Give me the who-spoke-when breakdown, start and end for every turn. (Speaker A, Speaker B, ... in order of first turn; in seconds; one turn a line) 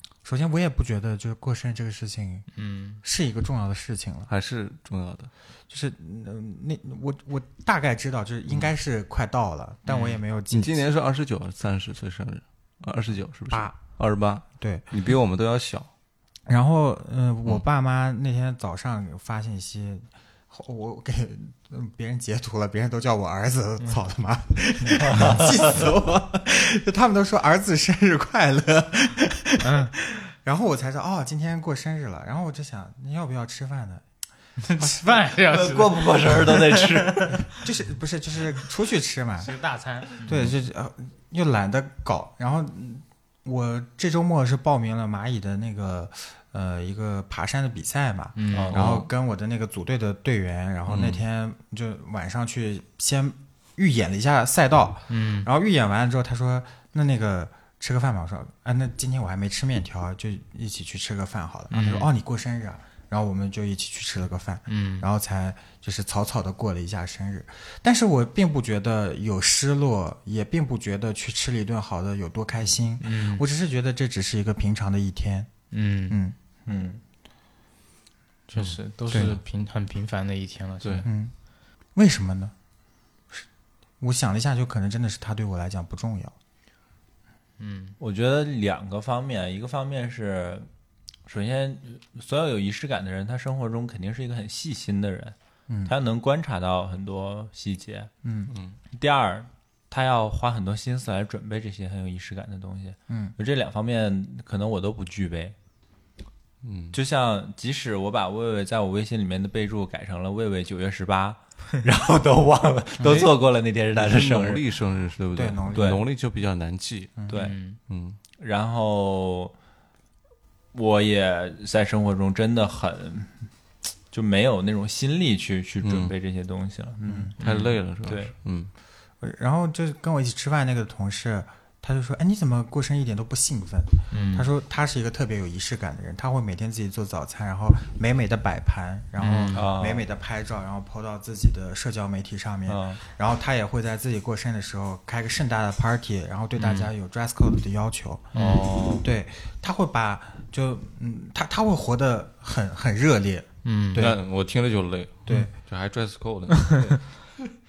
Speaker A: 0.2-2.5
Speaker B: 2.5-3.0
Speaker A: 3.0-4.3
Speaker C: 4.3-5.3
Speaker A: 5.7-10.8
Speaker C: 10.5-15.9
Speaker A: 13.5-13.8
Speaker A: 14.6-14.8
Speaker A: 16.5-34.0
Speaker D: 25.1-25.4
Speaker B: 29.6-29.9
Speaker B: 34.6-37.6
Speaker A: 34.8-35.2
Speaker D: 35.4-37.4
Speaker A: 37.5-39.5
Speaker B: 39.4-40.5
Speaker A: 40.2-75.5
Speaker B: 48.4-48.7
Speaker D: 48.5-48.8
Speaker C: 48.7-49.1
Speaker C: 50.9-51.2
Speaker B: 55.1-55.5
Speaker B: 61.7-62.1
Speaker B: 64.7-65.1
Speaker B: 73.0-73.5
Speaker B: 75.7-76.2
Speaker A: 76.1-76.4
Speaker D: 76.7-77.0
Speaker B: 78.5-81.1
Speaker A: 79.1-79.4
Speaker A: 81.0-81.3
Speaker A: 82.0-82.5
Speaker A: 84.0-86.3
Speaker B: 87.6-88.0
Speaker D: 88.0-90.7
Speaker D: 91.3-95.3
Speaker A: 95.7-95.9
Speaker D: 95.9-98.1
Speaker A: 98.2-98.5
Speaker C: 98.5-98.8
Speaker D: 98.9-105.5
Speaker A: 103.1-103.3
Speaker C: 106.6-107.0
Speaker D: 106.9-114.6
Speaker A: 113.0-113.3
Speaker C: 113.9-117.2
Speaker A: 115.3-116.0
Speaker D: 115.7-116.0
Speaker D: 117.3-117.6
Speaker B: 117.3-117.8
Speaker C: 117.9-118.2
Speaker D: 118.4-119.5
Speaker D: 120.7-123.5
Speaker D: 124.1-127.3
Speaker C: 125.8-126.1
Speaker A: 127.0-127.3
Speaker B: 127.4-127.8
Speaker C: 127.4-128.7
Speaker D: 128.1-128.3
Speaker A: 129.2-148.3
Speaker B: 134.1-134.5
Speaker B: 139.2-139.7
Speaker D: 139.5-140.0
Speaker D: 142.7-143.0
Speaker B: 146.6-146.9
Speaker B: 148.3-149.0
Speaker D: 148.4-149.0
Speaker A: 149.0-154.2
Speaker B: 153.6-154.1
Speaker C: 154.0-157.0